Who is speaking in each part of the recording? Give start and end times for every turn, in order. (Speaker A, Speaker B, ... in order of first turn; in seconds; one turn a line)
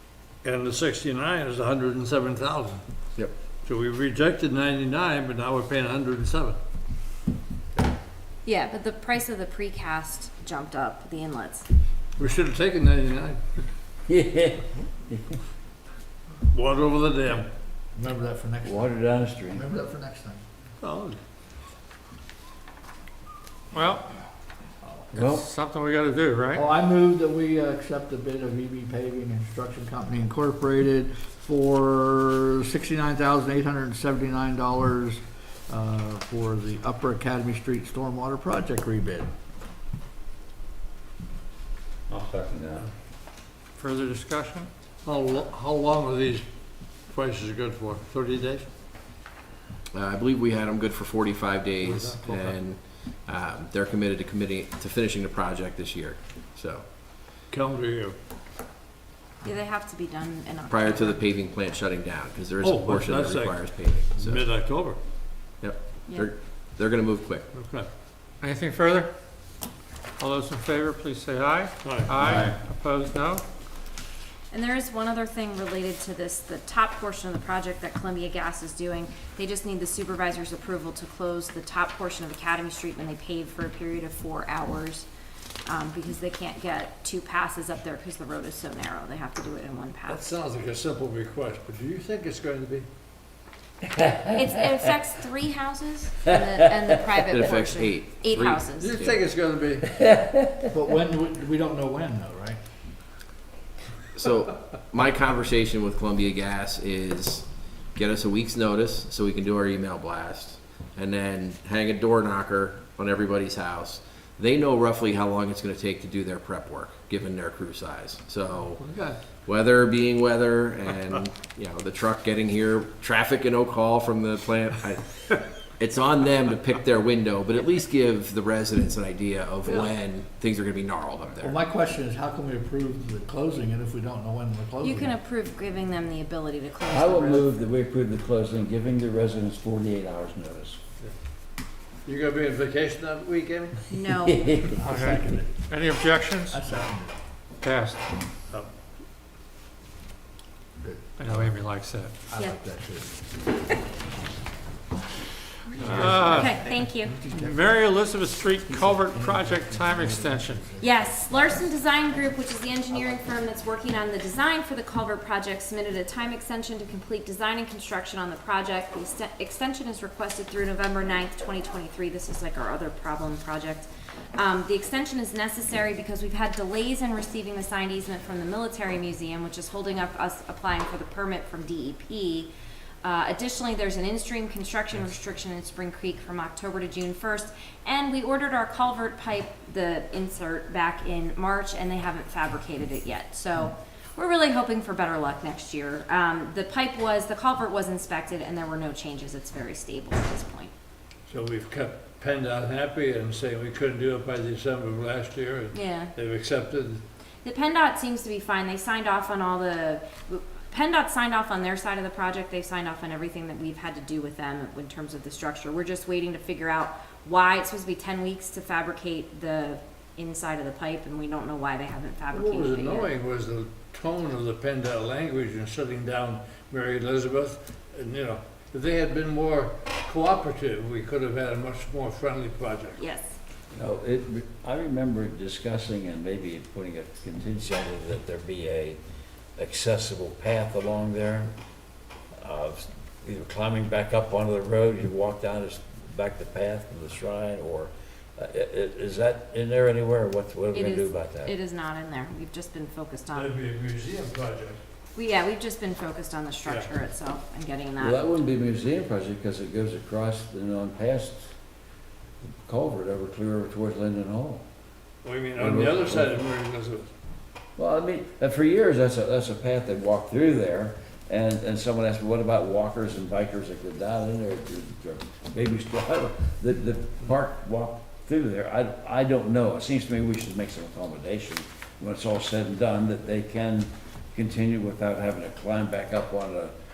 Speaker A: 0.4-2.8
Speaker A: 3.6-6.6
Speaker B: 8.4-11.7
Speaker A: 12.2-13.6
Speaker C: 14.1-15.4
Speaker A: 16.5-17.5
Speaker D: 17.9-18.9
Speaker C: 18.6-19.6
Speaker D: 19.5-20.4
Speaker A: 20.8-21.2
Speaker E: 23.7-24.1
Speaker E: 25.1-26.7
Speaker C: 25.1-25.5
Speaker D: 26.5-39.3
Speaker C: 42.1-42.9
Speaker E: 43.8-44.7
Speaker A: 45.0-46.5
Speaker A: 47.1-48.7
Speaker F: 49.9-56.9
Speaker A: 51.8-52.6
Speaker A: 57.5-58.2
Speaker B: 59.4-61.3
Speaker F: 60.7-64.5
Speaker A: 62.6-65.0
Speaker F: 65.6-67.5
Speaker A: 67.5-67.9
Speaker E: 68.4-69.1
Speaker E: 70.2-73.4
Speaker A: 71.8-72.3
Speaker C: 72.3-72.6
Speaker B: 74.5-85.1
Speaker B: 85.7-90.3
Speaker A: 90.0-92.9
Speaker C: 94.0-94.5
Speaker B: 94.3-99.1
Speaker F: 97.3-98.7
Speaker A: 98.8-99.9
Speaker C: 100.0-100.6
Speaker D: 100.7-102.6
Speaker F: 104.2-131.6
Speaker A: 118.8-119.2
Speaker D: 131.4-135.2
Speaker B: 134.8-137.5
Speaker C: 136.9-140.8
Speaker A: 142.1-143.9
Speaker B: 143.9-144.7
Speaker C: 144.3-144.8
Speaker D: 144.8-145.5
Speaker E: 144.8-146.6
Speaker D: 146.5-147.2
Speaker E: 147.6-148.0
Speaker D: 150.8-151.6
Speaker E: 151.2-152.1
Speaker D: 152.3-153.2
Speaker E: 155.8-156.7
Speaker D: 155.8-157.8
Speaker B: 156.2-157.2
Speaker E: 157.3-160.7
Speaker D: 158.7-161.7
Speaker B: 160.8-182.5
Speaker B: 183.0-200.7
Speaker A: 201.3-207.0
Speaker B: 205.7-206.1
Speaker B: 207.4-223.1
Speaker A: 222.3-233.0
Speaker B: 233.0-233.4
Speaker C: 233.7-239.0
Speaker C: 239.6-241.5
Speaker C: 242.4-251.5
Speaker B: 250.7-253.6
Speaker A: 253.3-254.8
Speaker B: 255.2-258.2
Speaker A: 256.7-256.9
Speaker C: 258.0-261.5
Speaker C: 262.7-264.6
Speaker A: 265.2-267.1
Speaker C: 265.6-266.4
Speaker C: 267.8-286.7